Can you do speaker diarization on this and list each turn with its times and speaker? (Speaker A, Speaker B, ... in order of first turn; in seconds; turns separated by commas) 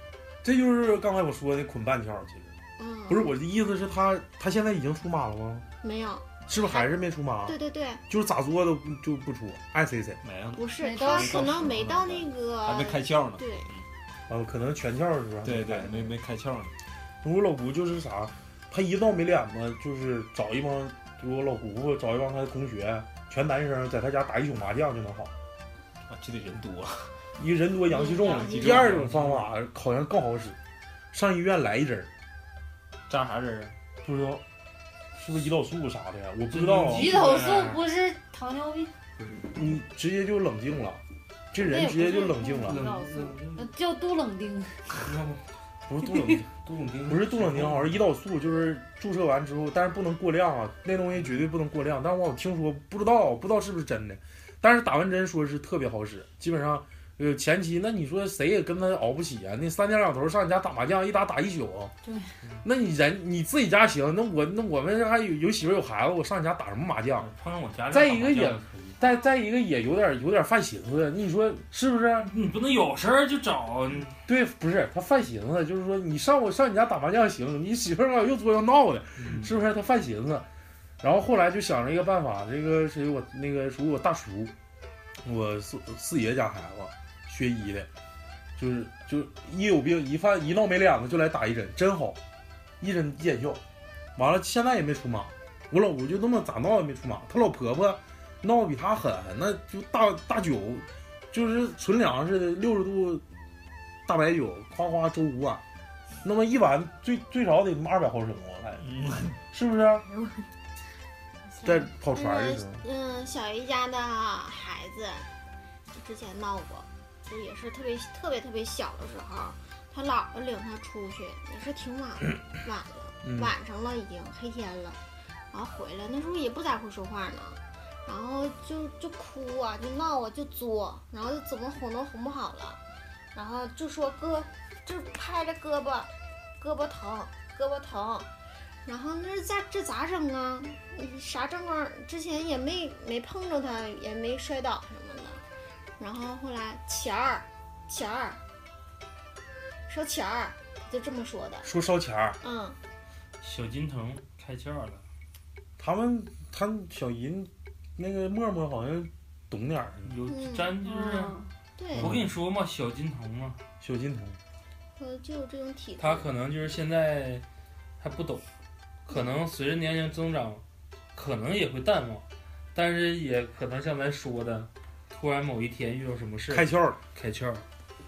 Speaker A: 0.4-2.5, Speaker B: 2.8-3.3, Speaker A: 3.1-5.7, Speaker B: 5.8-6.9, Speaker A: 6.5-7.5, Speaker B: 7.5-8.0, Speaker A: 8.1-10.2, Speaker C: 10.2-13.8, Speaker B: 10.5-13.7, Speaker D: 10.8-11.7, Speaker A: 14.3-16.1, Speaker C: 15.4-16.7, Speaker A: 17.2-25.3, Speaker C: 26.1-27.1, Speaker A: 27.4-30.6, Speaker D: 27.9-28.4, Speaker C: 28.0-29.1, Speaker E: 28.5-29.5, Speaker A: 31.1-32.1, Speaker E: 33.1-33.7, Speaker A: 34.0-34.4, Speaker A: 35.1-37.2, Speaker E: 36.5-37.8, Speaker D: 36.9-38.9, Speaker E: 39.2-39.5, Speaker A: 39.5-42.9, Speaker D: 41.5-44.8, Speaker E: 42.7-43.7, Speaker E: 44.9-45.4, Speaker A: 45.9-46.5, Speaker E: 46.5-48.0, Speaker A: 47.1-61.9, Speaker D: 62.0-62.3, Speaker A: 62.6-67.3, Speaker E: 67.2-69.0, Speaker A: 67.9-72.3, Speaker E: 72.2-74.2, Speaker A: 74.3-80.5, Speaker E: 79.2-79.5, Speaker A: 81.0-84.5, Speaker A: 85.2-87.9, Speaker A: 88.6-92.2, Speaker A: 92.8-93.6, Speaker A: 94.2-103.2, Speaker A: 104.1-105.6, Speaker A: 106.2-108.9, Speaker C: 108.8-109.4, Speaker A: 109.5-110.0, Speaker D: 111.5-111.8, Speaker A: 111.6-112.8, Speaker B: 112.1-115.3, Speaker B: 115.9-125.0, Speaker A: 123.2-123.5, Speaker B: 125.5-132.8, Speaker B: 133.3-138.3, Speaker B: 138.8-145.4, Speaker B: 146.0-148.4, Speaker B: 149.9-151.7, Speaker A: 151.6-152.4, Speaker B: 152.4-152.8, Speaker E: 153.4-155.0, Speaker A: 155.8-160.2, Speaker E: 160.1-161.3, Speaker B: 160.3-160.8, Speaker D: 160.8-161.5, Speaker B: 161.8-162.1, Speaker A: 161.9-162.3, Speaker E: 162.0-163.6, Speaker A: 163.8-164.4, Speaker B: 165.0-166.3, Speaker E: 166.0-167.4, Speaker E: 168.0-168.4, Speaker E: 169.1-170.6, Speaker E: 171.1-177.6, Speaker A: 176.5-177.0